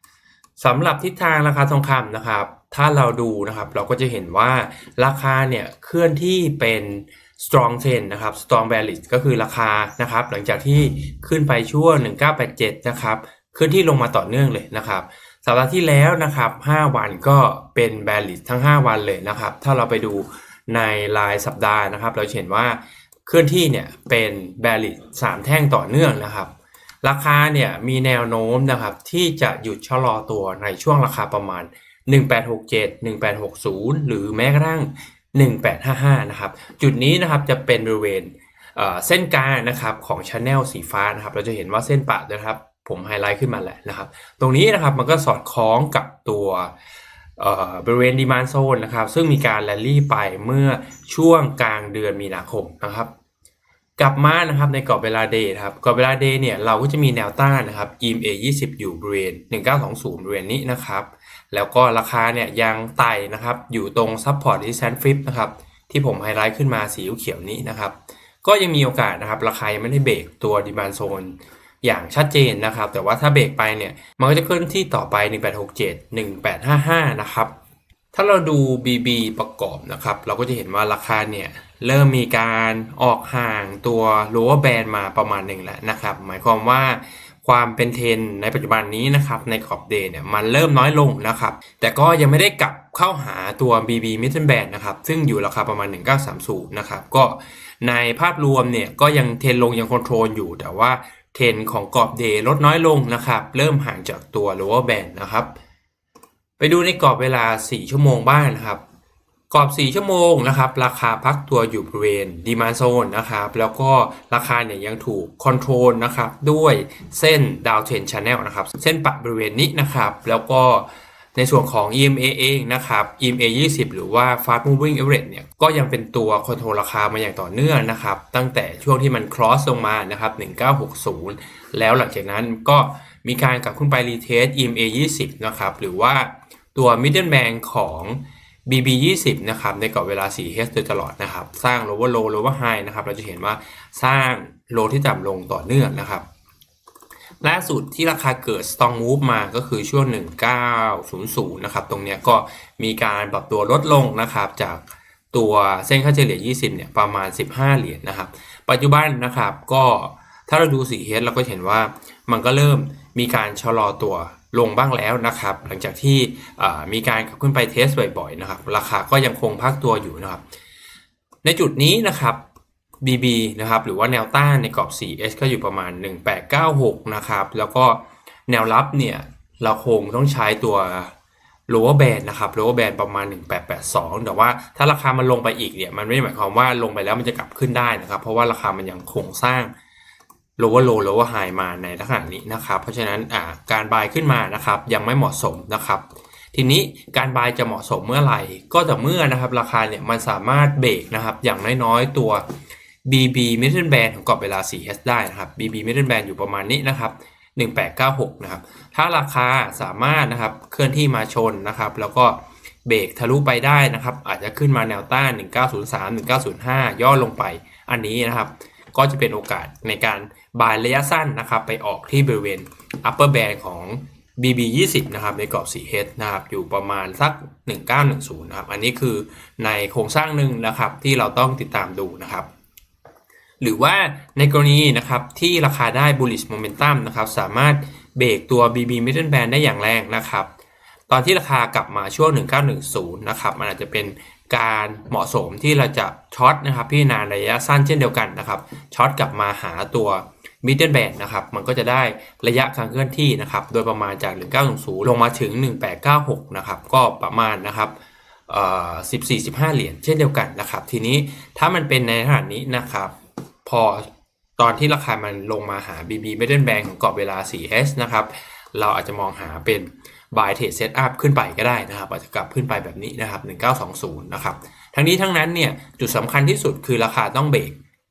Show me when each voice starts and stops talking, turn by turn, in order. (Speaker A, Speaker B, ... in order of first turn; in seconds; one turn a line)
Speaker A: 0.6-26.5
Speaker A: 27.0-46.7
Speaker A: 47.4-53.1
Speaker A: 54.0-77.5
Speaker A: 78.1-105.5
Speaker A: 106.6-108.8
Speaker A: 109.5-146.2
Speaker A: 147.4-170.4
Speaker A: 171.4-172.4
Speaker A: 173.0-181.1
Speaker A: 181.7-189.7
Speaker A: 190.6-202.4
Speaker A: 203.0-232.5
Speaker A: 233.6-240.5
Speaker A: 241.1-257.9
Speaker A: 258.5-263.1
Speaker A: 263.6-277.8